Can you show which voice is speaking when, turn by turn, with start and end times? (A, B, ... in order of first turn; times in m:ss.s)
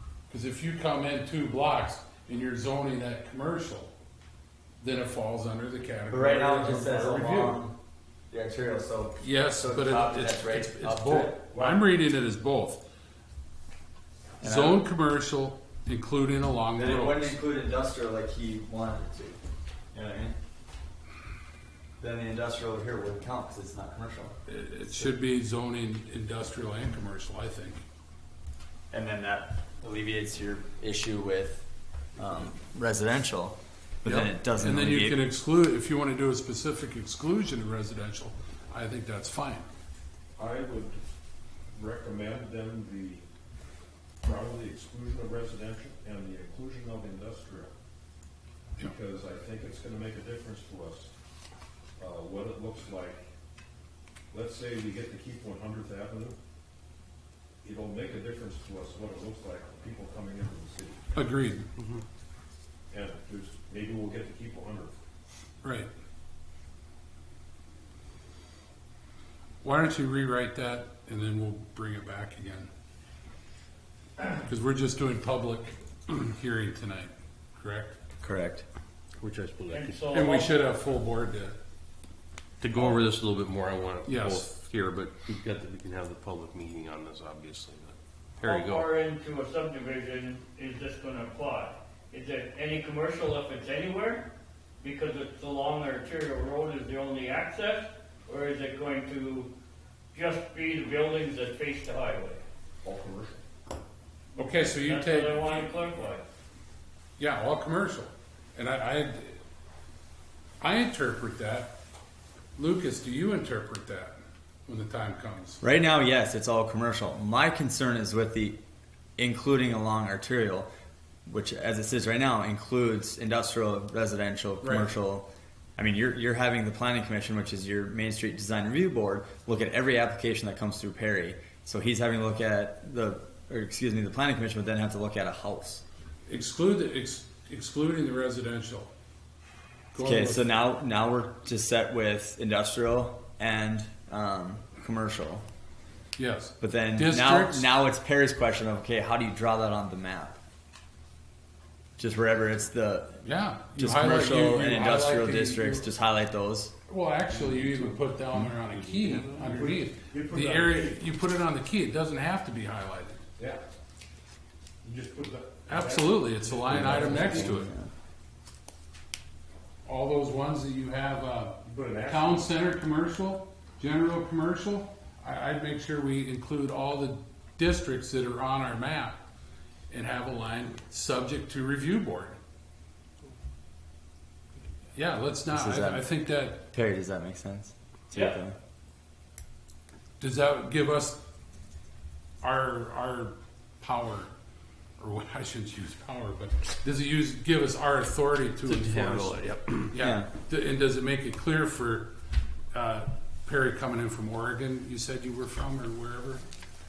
0:00.3-0:03.9 A
0:04.8-0:07.7 A
0:06.1-0:07.8 B
0:08.3-0:11.8 B
0:09.2-0:12.8 A
0:14.4-0:14.8 B
0:14.4-0:17.4 A
0:16.8-0:19.4 B
0:19.9-0:20.4 B
0:22.0-0:24.4 B
0:24.5-0:27.8 A
0:28.9-0:31.7 B
0:32.2-0:35.2 B
0:34.1-0:39.7 A
0:40.4-0:41.0 C
0:41.7-0:43.3 C
0:44.2-0:47.7 C
0:48.8-0:51.1 C
0:52.0-0:53.3 C
0:54.3-0:56.4 C
0:57.6-1:01.1 C
1:01.2-1:01.7 A
1:01.8-1:02.0 D
1:02.9-1:04.9 C
1:05.6-1:05.9 A
1:09.6-1:12.7 A
1:14.3-1:18.0 A
1:18.2-1:18.6 B
1:19.2-1:20.0 D
1:19.7-1:20.6 E
1:20.1-1:21.6 A
1:22.6-1:28.9 D
1:24.1-1:24.5 A
1:28.4-1:34.3 E
1:34.8-1:39.5 E
1:40.1-1:42.4 E
1:42.8-1:43.4 C
1:44.4-1:45.7 A
1:44.4-1:46.2 E
1:47.2-1:49.4 A
1:50.6-1:51.7 A
1:52.6-1:55.6 A
1:55.6-1:58.6 B
1:59.2-2:00.7 B
2:01.3-2:15.8 B
2:04.6-2:04.9 A
2:16.3-2:18.9 A
2:19.9-2:20.6 A
2:20.0-2:25.4 B
2:26.2-2:27.7 A
2:26.6-2:30.4 B
2:32.0-2:33.2 B
2:33.2-2:35.9 A
2:33.8-2:36.7 B
2:36.9-2:43.2 A
2:37.4-2:37.9 D
2:38.8-2:39.4 D
2:39.4-2:41.0 C
2:43.4-2:43.6 C
2:44.8-2:47.6 C
2:45.7-2:47.7 A
2:46.7-2:47.9 B
2:46.9-2:47.4 D
2:49.8-2:59.2 A
2:51.6-2:52.5 C
2:59.9-3:02.4 A
3:04.9-3:06.6 A
3:05.5-3:06.1 B
3:06.7-3:08.6 B
3:08.1-3:08.4 E
3:10.2-3:11.2 A
3:12.4-3:14.3 A
3:15.0-3:22.1 A
3:18.7-3:19.9 D
3:20.0-3:20.3 B
3:22.7-3:26.4 A